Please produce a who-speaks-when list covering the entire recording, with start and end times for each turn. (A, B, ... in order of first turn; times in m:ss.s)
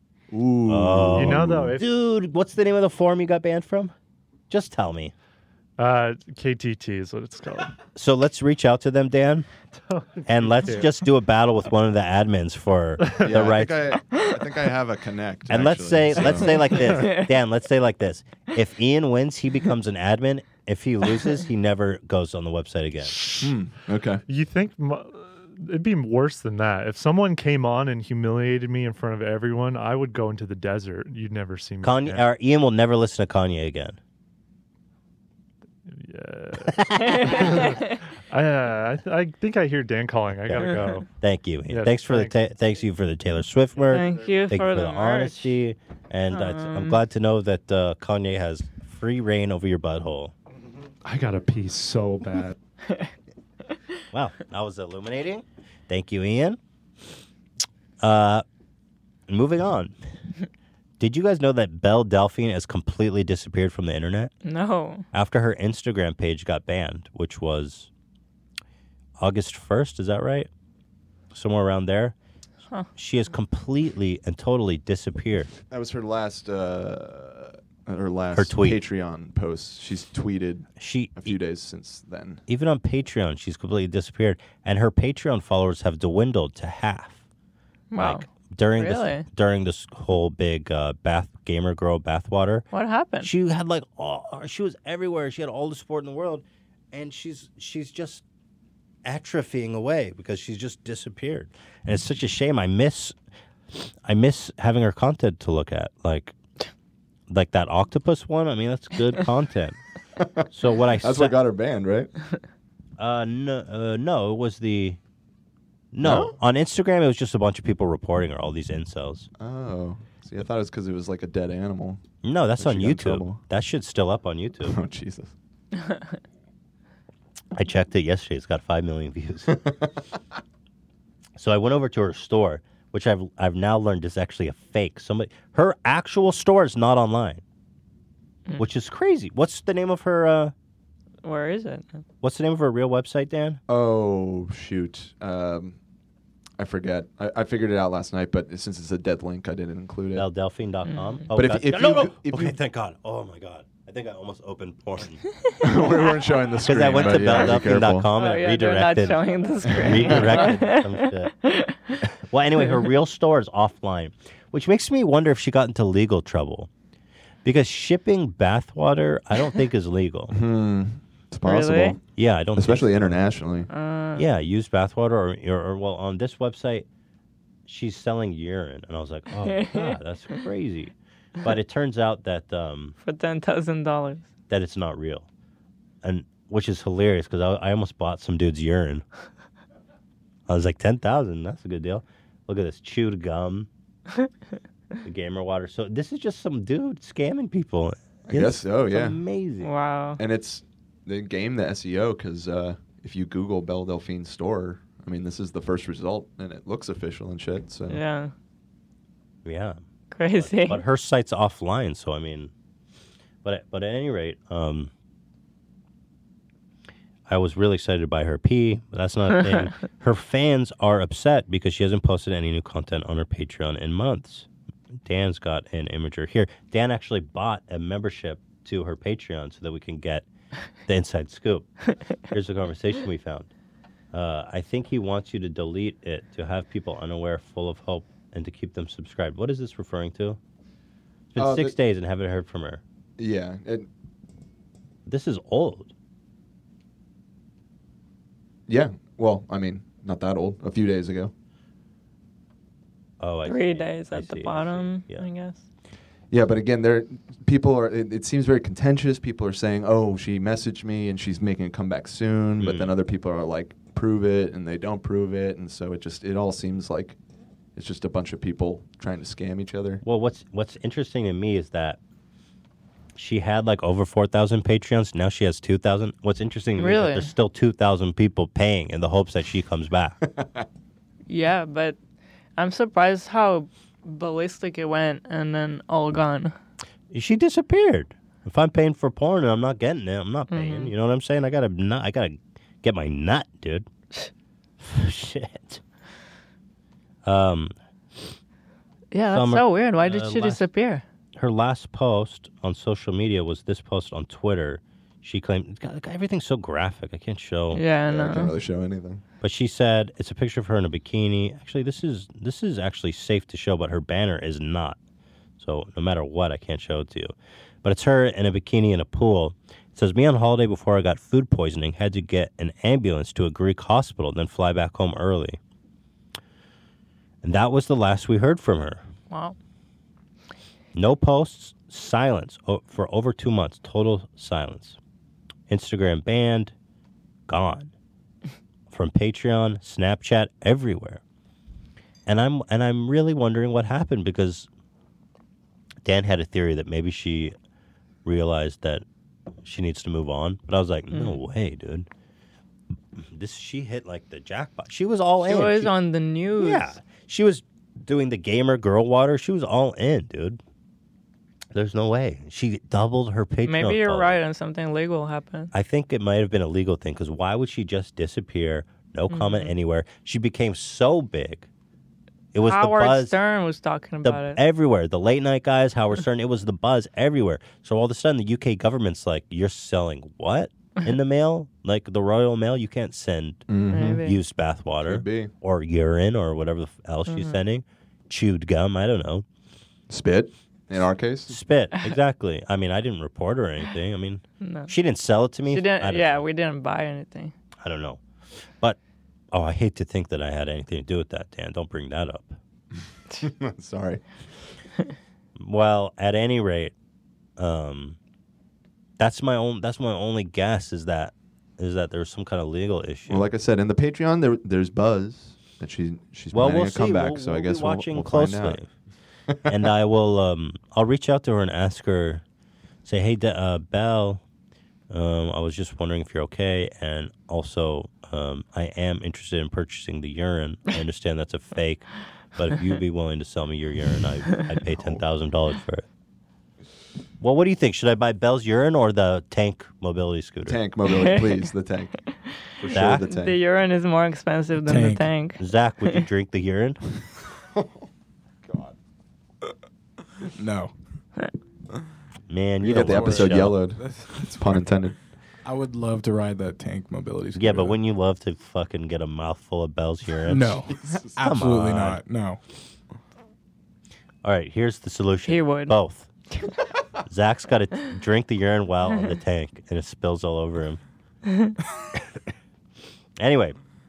0:00.3-0:01.7 A
0:00.7-0:03.9 B
0:01.1-0:01.9 C
0:04.5-0:05.1 B
0:05.8-0:07.8 C
0:08.0-0:09.5 B
0:09.8-0:11.1 C
0:10.3-0:14.0 B
0:13.0-0:13.6 C
0:13.2-0:16.6 A
0:15.5-0:23.2 B
0:16.7-0:17.3 D
0:23.4-0:24.2 A
0:24.3-0:32.3 C
0:31.8-0:34.0 B
0:35.9-0:41.1 C
0:36.7-0:37.6 B
0:37.0-0:38.0 D
0:40.4-0:50.3 B
0:41.7-0:42.4 C
0:43.9-0:45.5 D
0:46.3-0:47.0 D
0:51.0-0:52.6 C
0:54.1-0:56.6 B
0:58.0-0:58.4 B
0:59.3-1:00.0 B
1:01.0-1:04.3 B
1:04.4-1:05.1 D
1:05.1-1:07.9 B
1:09.2-1:10.5 B
1:11.3-1:12.2 B
1:13.0-1:15.5 B
1:15.7-1:22.4 A
1:18.3-1:18.8 B
1:20.8-1:21.4 B
1:22.5-1:27.2 B
1:27.9-1:29.3 D
1:28.0-1:32.6 B
1:32.7-1:33.3 D
1:33.2-1:38.2 B
1:39.0-1:43.2 B
1:43.8-1:46.4 B
1:47.3-1:49.8 B
1:50.2-1:50.5 A
1:50.5-1:51.4 B
1:51.0-1:52.1 A
1:53.0-1:55.0 B
1:55.9-1:59.3 B
1:56.0-1:56.4 A
1:59.4-2:02.0 A
2:02.2-2:04.8 B
2:02.6-2:03.4 A
2:04.6-2:05.3 A
2:07.5-2:09.6 B
2:09.5-2:09.9 A
2:11.4-2:17.4 B
2:18.6-2:20.5 B
2:21.2-2:22.0 D
2:22.2-2:23.6 B
2:23.7-2:25.8 A
2:26.6-2:30.3 A
2:30.1-2:35.2 B
2:30.9-2:31.2 D
2:31.3-2:32.6 A
2:35.6-2:38.1 A
2:36.6-2:41.3 B
2:38.2-2:42.0 D
2:42.0-2:46.7 B
2:47.4-2:50.4 B
2:50.3-2:52.0 A
2:51.4-2:52.0 D
2:52.2-2:53.2 B
2:52.6-2:53.7 A
2:53.7-2:54.2 D
2:54.2-2:56.9 B
2:57.7-3:03.0 B
2:59.4-3:00.4 D
3:03.0-3:04.3 D
3:04.5-3:05.3 B
3:06.0-3:09.0 B
3:10.5-3:13.7 B
3:15.0-3:19.7 B
3:18.3-3:19.2 A
3:19.6-3:20.2 D
3:20.2-3:28.0 A
3:27.9-3:28.3 D
3:29.4-3:29.8 B
3:30.1-3:30.8 D
3:30.4-3:32.5 B
3:33.4-3:34.9 B
3:37.3-3:44.5 B
3:45.0-3:50.2 B
3:50.9-3:51.7 B
3:52.3-3:53.5 B
3:54.1-4:00.4 B
4:01.3-4:02.8 B
4:01.4-4:01.8 A
4:03.2-4:03.9 A
4:05.1-4:05.9 B
4:08.7-4:11.3 A
4:13.2-4:15.3 B
4:13.4-4:15.6 D
4:16.3-4:27.2 A
4:22.6-4:23.0 B
4:27.8-4:30.0 A
4:30.0-4:32.0 B
4:33.2-4:40.2 B
4:36.8-4:37.3 D
4:40.4-4:40.6 A
4:41.3-4:42.0 D
4:42.6-4:46.5 D
4:47.1-4:53.9 B
4:50.5-4:50.9 D
4:54.8-4:55.8 B
4:57.2-4:58.3 B
4:59.1-5:01.0 D
4:59.3-5:00.7 B
5:01.4-5:07.8 B
5:07.7-5:08.5 D
5:08.1-5:09.2 A
5:09.4-5:15.0 B
5:15.6-5:25.6 B
5:27.4-5:29.0 B
5:29.3-5:29.6 D
5:30.9-5:35.0 B
5:35.7-5:36.7 B
5:37.5-5:37.9 B
5:38.9-5:41.2 B
5:42.3-5:44.7 B
5:46.0-5:47.6 B
5:48.2-5:49.0 B
5:49.6-5:52.1 B
5:51.1-5:51.4 D
5:53.2-5:55.9 B
5:55.4-5:57.0 D
5:56.6-6:00.6 B
6:01.7-6:04.4 B
6:03.7-6:05.7 D
6:05.7-6:11.7 B
6:09.3-6:09.7 D
6:12.5-6:13.4 B
6:12.6-6:14.6 D
6:14.2-6:29.4 B
6:23.7-6:24.2 A
6:23.9-6:24.4 D
6:25.0-6:25.5 A
6:27.3-6:27.6 D
6:30.1-6:31.6 A
6:31.5-6:36.4 B
6:34.6-6:34.9 D
6:35.7-6:37.5 D
6:37.8-6:38.2 B
6:39.5-6:42.6 B
6:43.4-6:44.2 A
6:45.6-6:46.9 B
6:47.6-6:48.2 B
6:49.2-6:53.5 B
6:53.3-6:58.8 A
6:56.5-6:58.9 B
6:59.5-6:59.8 A
6:59.7-7:02.4 B
7:03.0-7:04.4 B
7:05.1-7:16.1 B
7:14.9-7:15.2 A
7:17.4-7:20.8 B
7:20.7-7:22.3 A
7:21.1-7:21.7 D
7:22.5-7:26.2 D
7:22.8-7:23.6 A
7:22.9-7:23.3 B
7:24.8-7:25.3 E
7:25.6-7:27.0 B
7:30.6-7:30.9 E
7:32.5-7:33.8 B
7:32.8-7:35.2 A
7:33.0-7:35.1 E
7:35.6-7:38.0 E
7:37.6-7:40.7 B
7:40.4-7:42.6 E
7:40.9-7:41.4 A
7:41.4-7:42.2 B
7:44.4-7:46.3 B
7:45.5-7:46.0 D
7:47.3-7:51.0 B
7:51.5-7:51.8 D
7:53.4-7:53.8 B